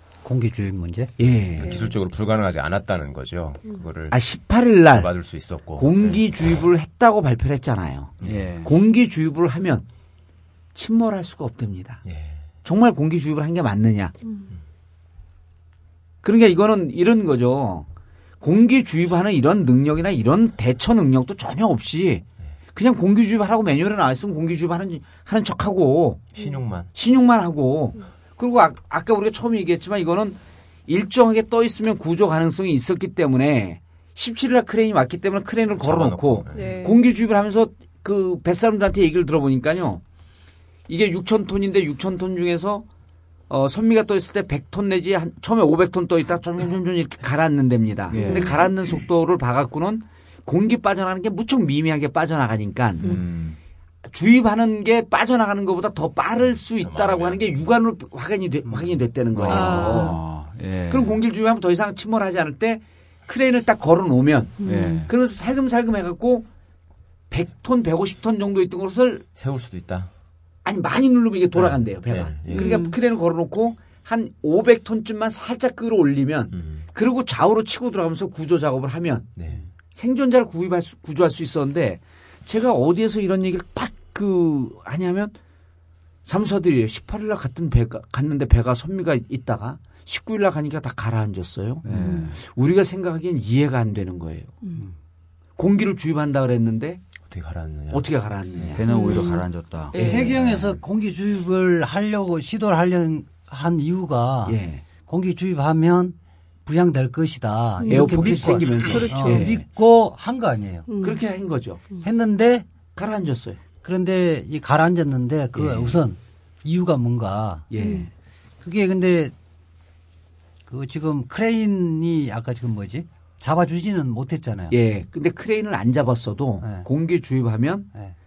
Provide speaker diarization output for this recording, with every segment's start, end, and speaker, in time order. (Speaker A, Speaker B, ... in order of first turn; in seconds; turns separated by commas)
Speaker A: 0.2-1.1, Speaker B: 1.2-1.9, Speaker C: 1.6-4.2, Speaker D: 1.6-1.9, Speaker B: 4.1-5.1, Speaker C: 4.9-6.6, Speaker B: 5.8-9.8, Speaker E: 8.2-8.7, Speaker B: 10.7-12.0, Speaker C: 12.1-12.4, Speaker B: 12.6-14.1, Speaker B: 16.2-17.9, Speaker B: 18.4-26.3, Speaker C: 26.3-26.9, Speaker B: 26.9-40.0, Speaker C: 35.8-36.8, Speaker D: 36.5-37.0, Speaker B: 40.9-42.9, Speaker B: 43.5-53.2, Speaker E: 48.1-48.7, Speaker D: 48.1-48.7, Speaker E: 53.0-53.6, Speaker B: 54.1-60.2, Speaker C: 56.8-57.4, Speaker E: 59.3-61.2, Speaker D: 59.5-60.2, Speaker B: 60.9-66.5, Speaker D: 64.6-65.1, Speaker E: 64.6-65.1, Speaker B: 67.3-69.2, Speaker C: 69.4-70.1, Speaker B: 70.6-79.4, Speaker C: 71.5-72.8, Speaker D: 72.5-73.0, Speaker C: 76.5-76.8, Speaker C: 79.4-79.6, Speaker B: 79.9-85.3, Speaker B: 86.2-94.6, Speaker E: 91.8-92.4, Speaker D: 91.9-92.2, Speaker B: 95.6-97.0, Speaker C: 97.2-98.1, Speaker B: 97.9-98.8, Speaker E: 98.6-100.8, Speaker D: 98.9-100.3, Speaker B: 99.9-100.3, Speaker A: 100.0-110.9, Speaker B: 104.5-104.8, Speaker D: 107.8-109.6, Speaker B: 107.9-109.6, Speaker D: 110.9-111.2, Speaker B: 111.0-111.8, Speaker A: 112.0-112.7, Speaker B: 113.0-113.6, Speaker A: 113.8-117.7, Speaker B: 115.5-116.0, Speaker B: 117.7-118.1, Speaker D: 117.8-118.1, Speaker A: 118.6-119.3, Speaker A: 120.7-124.7, Speaker B: 124.7-127.9, Speaker A: 126.6-126.9